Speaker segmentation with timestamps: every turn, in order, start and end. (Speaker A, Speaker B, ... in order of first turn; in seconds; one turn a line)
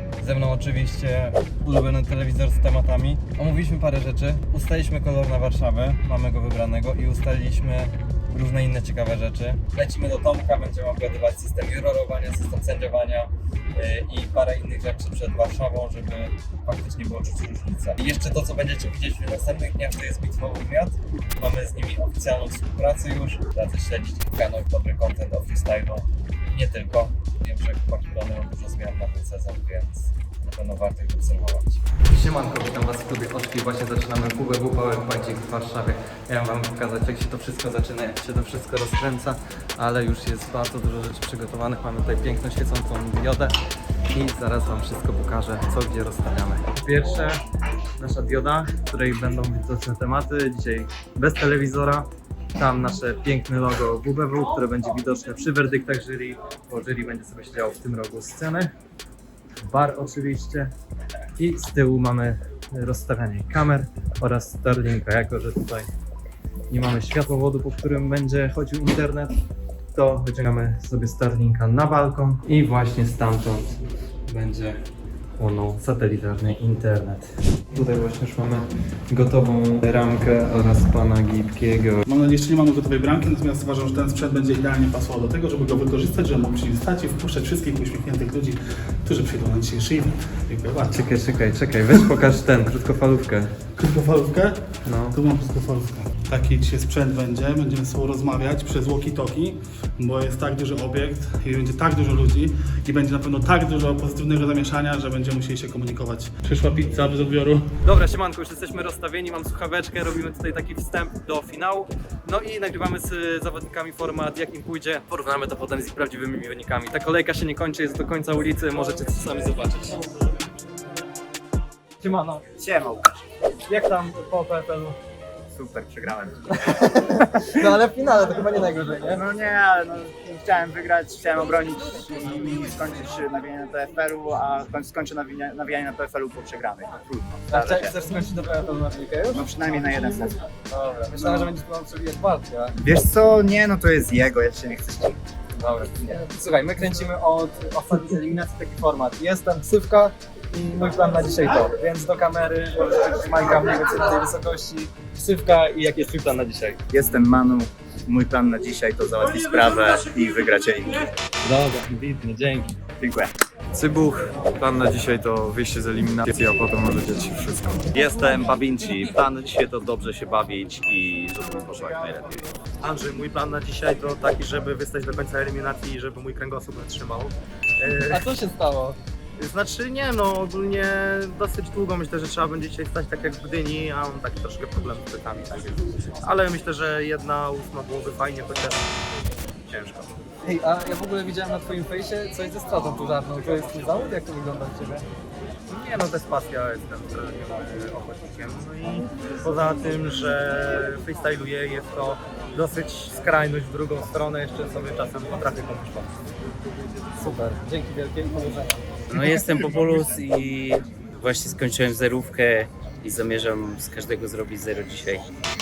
Speaker A: 0.2-43.5
Speaker A: 44.1-47.4
Speaker A: 48.0-58.7
Speaker A: 59.7-60.7
Speaker A: 61.4-65.9
Speaker A: 66.7-69.3
Speaker A: 69.9-73.7
Speaker A: 74.3-74.8
Speaker A: 75.4-82.0
Speaker B: 82.0-91.0
Speaker A: 90.9-93.5
Speaker B: 93.8-107.7
Speaker A: 94.8-95.2
Speaker A: 107.8-120.0
Speaker A: 122.0-122.4
Speaker C: 122.6-123.2
Speaker A: 123.7-124.9
Speaker C: 125.5-126.4
Speaker A: 127.6-129.2
Speaker C: 129.1-137.9
Speaker A: 137.5-139.4
Speaker C: 139.3-140.4
Speaker A: 140.7-142.7
Speaker C: 141.2-141.5
Speaker C: 142.8-145.2
Speaker A: 145.6-156.7
Speaker C: 156.9-161.0
Speaker A: 161.5-162.6
Speaker C: 163.0-163.3
Speaker D: 164.6-166.1
Speaker D: 166.6-167.8
Speaker E: 168.0-172.3
Speaker F: 172.9-177.3
Speaker A: 178.1-179.0
Speaker F: 179.4-185.7
Speaker F: 186.4-188.8
Speaker A: 190.5-191.6
Speaker F: 195.8-199.0
Speaker F: 199.5-200.4
Speaker F: 201.1-206.1
Speaker G: 209.1-215.2